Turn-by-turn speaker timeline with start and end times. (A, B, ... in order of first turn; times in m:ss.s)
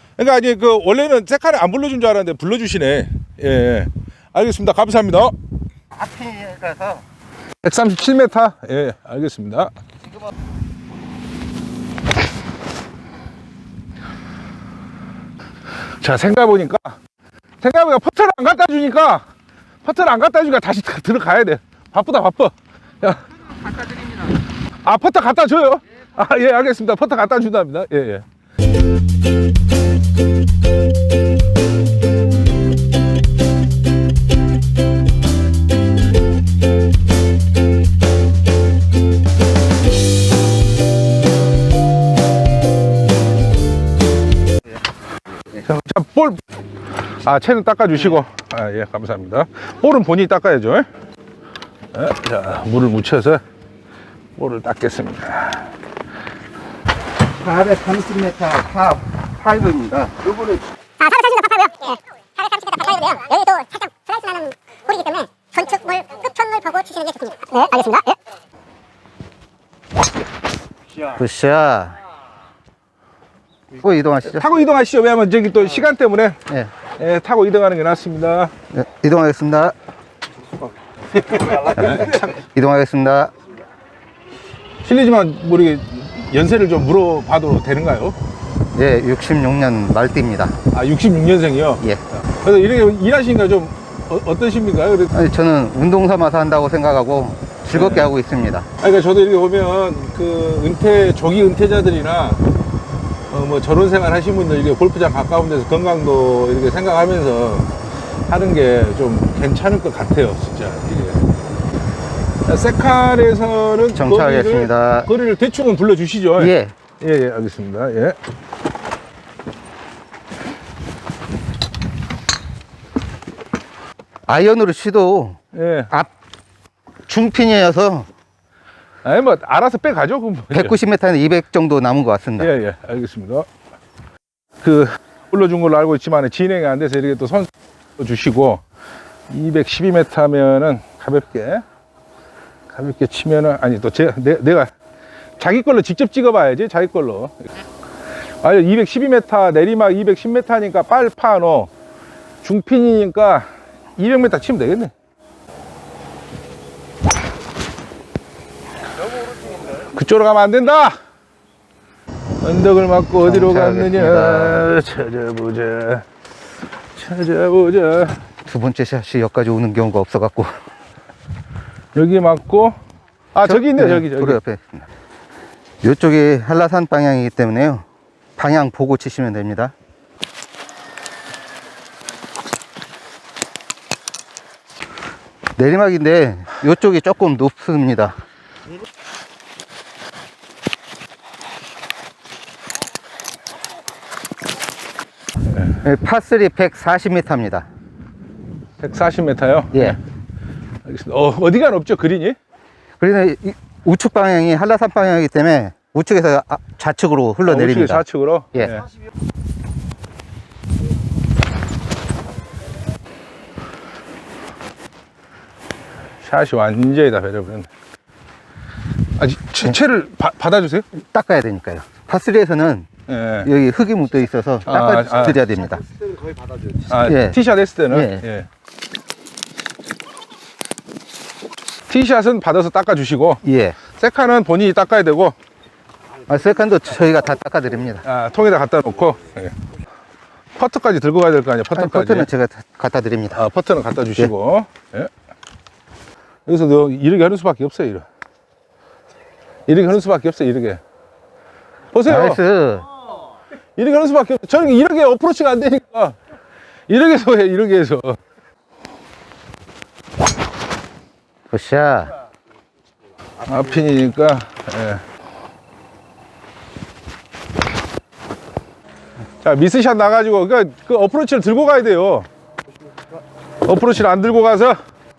0:00.2-0:05.4 A
0:05.9-0:07.0 B
0:07.6-0:09.7 A
0:16.0-0:17.0 A
0:17.6-0:19.2 A
0:19.8-0:23.2 A
0:24.8-0:28.2 A
0:45.6-0:46.4 A
0:47.2-0:50.9 A
0:51.9-0:53.4 A
0:54.4-0:55.7 A
0:57.3-1:00.6 B
1:01.0-1:08.2 C
1:11.1-1:12.0 B
1:13.8-1:14.5 B
1:14.3-1:16.4 A
1:17.0-1:18.5 A
1:18.7-1:19.8 B
1:21.7-1:23.3 B
1:21.8-1:22.2 A
1:24.8-1:28.2 A
1:28.7-1:30.6 B
1:30.7-1:35.2 A
1:35.1-1:38.7 B
1:37.7-1:38.1 A
1:38.8-1:42.4 A
1:43.3-1:47.7 A
1:48.3-1:51.3 A
1:52.4-1:58.2 A
1:54.0-1:55.1 B
1:56.4-1:56.7 B
2:04.3-2:05.4 B
2:05.5-2:05.9 A
2:07.1-2:08.1 B
2:09.0-2:10.8 A
2:10.5-2:12.5 B
2:12.4-2:13.5 A
2:14.6-2:18.6 A
2:19.3-2:21.6 A
2:22.7-2:24.7 A
2:25.4-2:27.5 A
2:28.4-2:31.7 A
2:32.4-2:34.9 A
2:39.8-2:41.0 A
2:42.4-2:46.0 A
2:43.2-2:44.6 B
2:47.0-2:48.2 A
2:48.5-2:50.6 B
2:52.0-2:52.8 A
2:53.3-2:54.4 A
2:53.4-2:54.9 B
2:55.8-2:57.8 B
2:58.4-2:59.7 B
3:05.6-3:08.2 B
3:15.8-3:17.7 B
3:18.8-3:20.0 A
3:20.8-3:22.4 A
3:23.0-3:28.0 B
3:27.5-3:28.8 A
3:36.2-3:37.7 A
3:39.2-3:40.9 A
3:41.0-3:42.9 B
3:43.1-3:43.5 A
3:43.4-3:45.8 B
3:44.7-3:45.4 A
3:46.9-3:48.5 A
3:47.0-3:48.2 B
3:51.9-3:53.4 A
3:53.4-3:53.8 B
3:53.9-3:55.4 A
3:56.3-3:58.0 B
3:58.0-3:59.6 A
4:00.6-4:02.3 A
4:01.8-4:03.4 B
4:03.3-4:05.1 A
4:06.5-4:08.1 A
4:09.7-4:10.8 A
4:11.9-4:12.4 A
4:12.1-4:12.9 B
4:13.8-4:16.2 A
4:16.9-4:18.2 A
4:21.5-4:22.1 B
4:23.4-4:25.0 A
4:29.4-4:32.3 A
4:33.6-4:34.8 A